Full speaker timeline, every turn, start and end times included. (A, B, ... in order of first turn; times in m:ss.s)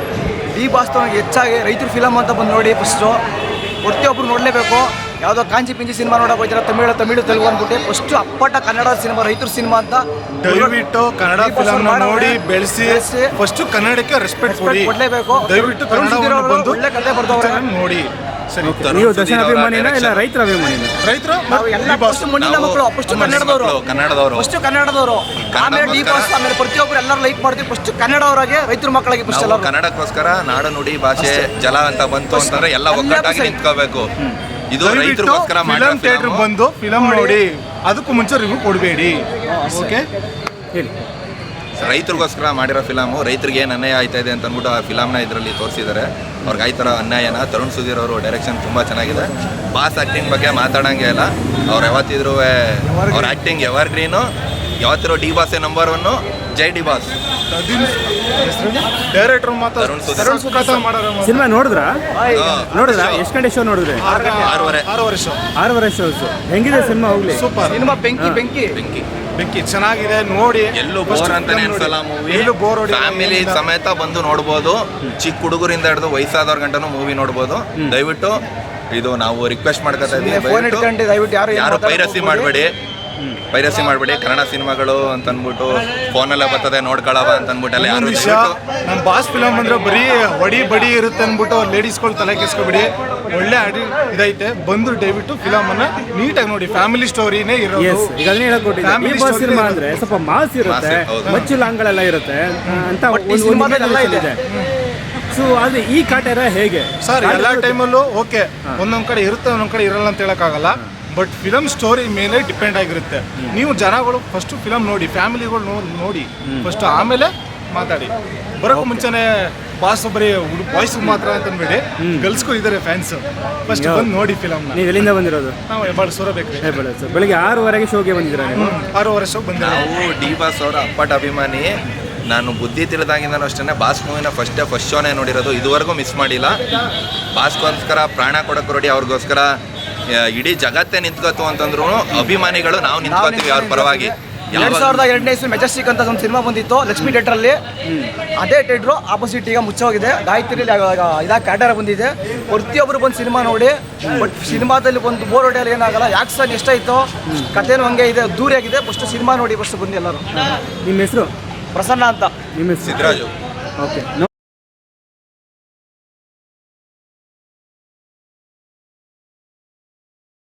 0:00.5-0:03.2 A
0:03.8-0:10.7 A
0:10.4-0:14.9 B
0:11.3-0:13.3 A
0:14.4-0:17.6 A
0:15.4-0:18.8 B
0:18.6-0:20.9 C
0:18.7-0:20.2 D
0:21.0-0:22.3 B
0:21.5-0:23.8 A
0:22.4-0:24.5 D
0:24.3-0:29.7 A
0:25.5-0:26.3 D
0:29.3-0:34.1 D
0:31.2-0:31.5 A
0:32.3-0:33.6 A
0:34.7-0:36.5 D
0:34.8-0:40.0 B
0:36.9-0:37.4 A
0:39.5-0:40.0 A
0:40.7-0:41.0 C
0:41.8-0:54.3 D
0:52.8-0:53.4 A
0:54.8-0:57.1 D
0:57.5-1:01.4 B
0:59.8-1:00.7 D
1:00.2-1:00.8 A
1:01.2-1:02.0 C
1:02.1-1:02.6 A
1:02.3-1:03.2 D
1:02.7-1:04.0 C
1:04.0-1:05.4 B
1:04.0-1:04.7 A
1:04.4-1:04.9 D
1:05.6-1:07.4 C
1:07.3-1:07.9 B
1:07.6-1:08.8 A
1:08.8-1:09.1 D
1:09.3-1:13.6 B
1:10.8-1:18.4 D
1:18.9-1:20.8 D
1:20.0-1:22.5 A
1:21.5-1:22.7 D
1:23.5-1:28.6 D
1:27.8-1:38.1 B
1:37.8-1:44.4 C
1:38.8-1:40.0 B
1:40.6-1:41.5 D
1:43.1-1:44.3 A
1:45.2-1:47.8 C
1:47.0-2:04.8 B
1:58.7-1:59.1 C
2:02.0-2:02.5 C
2:03.7-2:04.1 C
2:04.7-2:05.6 C
2:05.7-2:06.8 B
2:06.6-2:08.8 C
2:08.5-2:09.9 B
2:09.5-2:11.7 D
2:12.3-2:16.6 D
2:17.3-2:19.5 D
2:20.1-2:25.1 D
2:23.0-2:27.6 A
2:28.4-2:40.5 A
2:34.0-2:34.6 C
2:40.8-2:41.3 C
2:41.7-2:42.3 A
2:42.5-2:43.2 C
2:42.8-2:43.3 D
2:43.8-2:44.1 C